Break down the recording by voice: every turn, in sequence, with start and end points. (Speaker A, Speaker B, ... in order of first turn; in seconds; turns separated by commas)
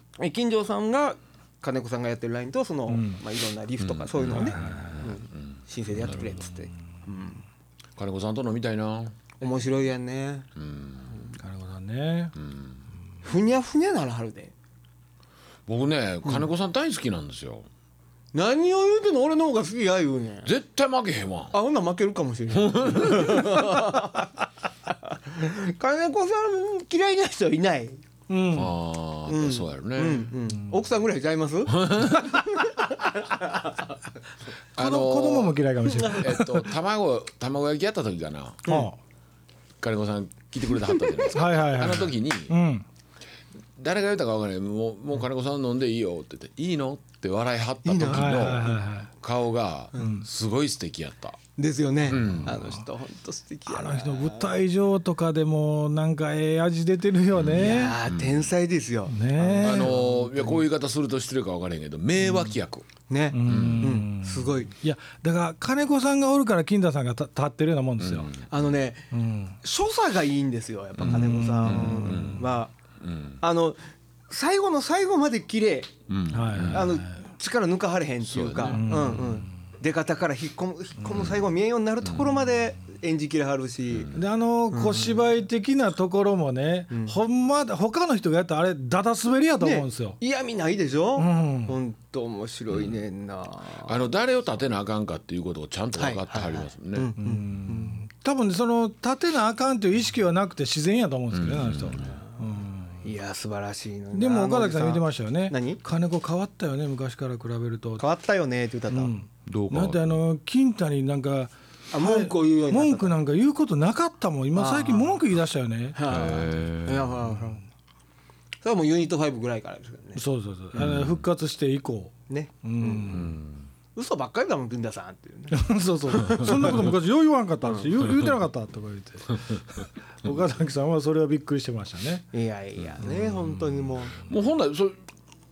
Speaker A: 0.2-7.4, Speaker B: 2.9-3.2, Speaker C: 3.8-6.4, Speaker B: 4.3-5.1, Speaker C: 8.0-9.1, Speaker A: 9.4-10.5, Speaker C: 10.6-11.3, Speaker B: 11.4-12.3, Speaker C: 12.4-12.7, Speaker A: 13.2-14.5, Speaker C: 15.7-17.7, Speaker A: 18.3-20.5, Speaker C: 20.4-21.5, Speaker A: 21.5-28.0, Speaker C: 22.5-23.7, Speaker B: 28.3-28.7, Speaker C: 28.5-30.3, Speaker A: 29.3-33.9, Speaker C: 31.7-32.3, Speaker C: 34.7-38.6, Speaker B: 34.8-36.7, Speaker A: 38.6-38.9, Speaker B: 38.7-39.0, Speaker C: 39.8-42.6, Speaker A: 40.9-41.3, Speaker B: 41.3-42.8, Speaker C: 43.8-51.4, Speaker A: 47.8-48.8, Speaker B: 48.1-49.1, Speaker B: 50.0-50.2, Speaker A: 51.6-54.5, Speaker C: 52.0-52.6, Speaker B: 52.3-52.7, Speaker B: 53.7-58.0, Speaker C: 57.3-58.5, Speaker A: 57.5-60.6, Speaker B: 59.1-59.9, Speaker C: 59.6-62.9, Speaker A: 63.1-64.7, Speaker B: 63.3-68.3, Speaker C: 63.4-64.0, Speaker C: 68.0-68.4, Speaker A: 68.5-69.1, Speaker B: 69.1-69.6, Speaker A: 69.6-72.7, Speaker C: 71.0-73.4, Speaker B: 71.0-72.4, Speaker A: 73.4-75.9, Speaker C: 76.1-76.9, Speaker B: 76.3-77.2, Speaker A: 76.6-84.2, Speaker C: 78.2-79.1, Speaker B: 78.7-79.5, Speaker C: 81.1-81.4, Speaker C: 83.9-84.2, Speaker B: 84.1-90.2, Speaker A: 84.7-85.2, Speaker A: 86.9-87.2, Speaker A: 89.6-94.0, Speaker B: 91.2-91.8, Speaker C: 92.7-93.0, Speaker C: 93.8-97.1, Speaker A: 96.0-98.0, Speaker B: 97.2-103.0, Speaker C: 101.3-102.1, Speaker A: 103.0-105.8, Speaker B: 104.1-108.0, Speaker A: 108.0-109.1, Speaker B: 108.9-116.2, Speaker C: 109.5-110.2, Speaker A: 111.9-113.2, Speaker A: 114.5-115.2, Speaker A: 115.9-117.6, Speaker C: 116.1-117.1, Speaker A: 118.6-120.2, Speaker B: 120.2-123.3, Speaker C: 120.7-121.2, Speaker A: 122.3-123.3, Speaker C: 123.1-123.7, Speaker A: 123.9-126.9, Speaker B: 125.5-132.3, Speaker A: 127.6-127.9, Speaker A: 132.3-134.2, Speaker C: 134.1-135.0